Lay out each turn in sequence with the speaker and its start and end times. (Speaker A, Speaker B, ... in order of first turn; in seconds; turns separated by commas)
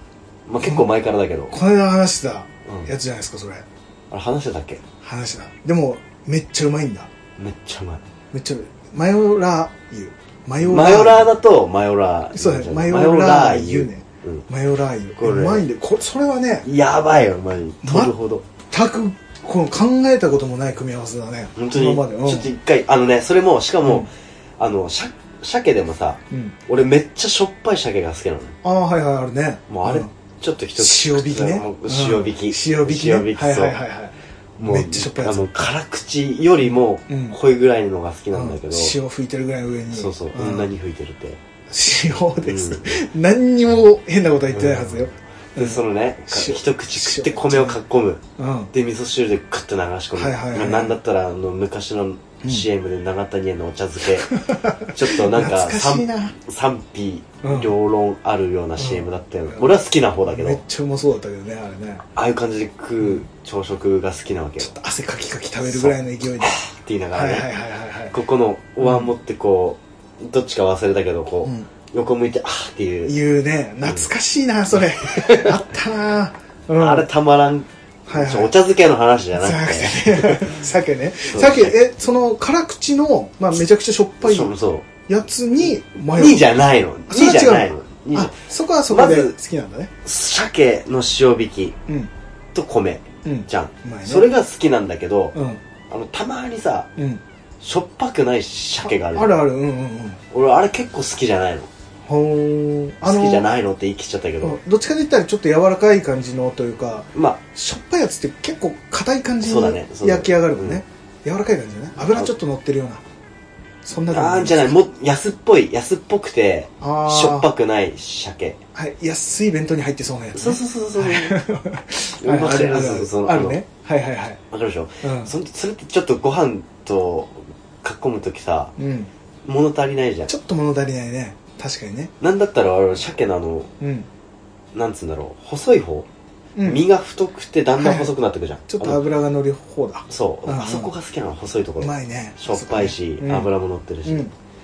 Speaker A: 0.5-1.6, Speaker B: 1.5-3.7, Speaker A: 2.7-2.9, Speaker A: 4.1-4.8, Speaker B: 5.0-7.1, Speaker A: 7.4-8.0, Speaker B: 8.3-11.3, Speaker A: 10.6-14.4, Speaker B: 12.3-16.7, Speaker A: 15.2-15.7, Speaker A: 16.6-18.4, Speaker B: 17.8-18.1, Speaker B: 18.7-22.5, Speaker A: 21.6-28.6, Speaker B: 26.3-26.6, Speaker B: 28.6-30.1, Speaker A: 29.7-33.8, Speaker B: 30.8-35.7, Speaker A: 34.6-39.0, Speaker B: 37.1-37.4, Speaker B: 38.3-40.7, Speaker A: 39.9-41.4, Speaker B: 41.7-47.8, Speaker A: 42.4-42.9, Speaker A: 44.5-45.0, Speaker A: 45.5-60.6, Speaker B: 48.4-48.7, Speaker B: 50.2-51.0, Speaker B: 54.2-56.4, Speaker B: 57.4-57.7, Speaker B: 58.8-59.8, Speaker B: 60.3-62.0, Speaker A: 62.1-64.8, Speaker B: 64.6-66.6, Speaker A: 65.6-67.5, Speaker B: 67.1-68.1, Speaker A: 68.1-73.2, Speaker B: 68.8-69.1, Speaker B: 73.1-77.1, Speaker A: 75.0-75.6, Speaker A: 76.8-80.6, Speaker B: 78.1-78.5, Speaker B: 79.4-84.5, Speaker A: 81.3-81.8, Speaker A: 84.2-84.9, Speaker B: 85.1-86.4, Speaker A: 86.1-89.3, Speaker B: 87.1-89.9, Speaker A: 90.0-91.8, Speaker A: 92.5-95.4, Speaker B: 93.2-94.3, Speaker B: 95.3-95.6, Speaker A: 95.9-96.9, Speaker B: 97.0-97.2, Speaker A: 97.6-99.4, Speaker B: 98.8-100.2, Speaker A: 100.3-101.7, Speaker B: 102.1-103.5, Speaker A: 103.0-104.6, Speaker B: 104.4-113.0, Speaker A: 107.2-107.4, Speaker A: 109.4-110.8, Speaker B: 113.8-114.8, Speaker A: 114.1-118.6, Speaker B: 116.8-117.5, Speaker B: 118.8-124.4, Speaker A: 120.3-121.4, Speaker A: 122.2-123.6, Speaker A: 124.5-128.7, Speaker B: 125.0-125.3, Speaker B: 128.8-129.1, Speaker A: 129.4-130.3, Speaker B: 130.3-132.1, Speaker A: 132.2-133.7, Speaker B: 133.8-134.1, Speaker A: 134.7-136.1, Speaker B: 136.6-136.9, Speaker A: 136.6-139.0, Speaker B: 137.8-138.1, Speaker B: 138.7-140.9, Speaker A: 140.1-144.3, Speaker B: 141.8-143.5, Speaker B: 144.1-144.3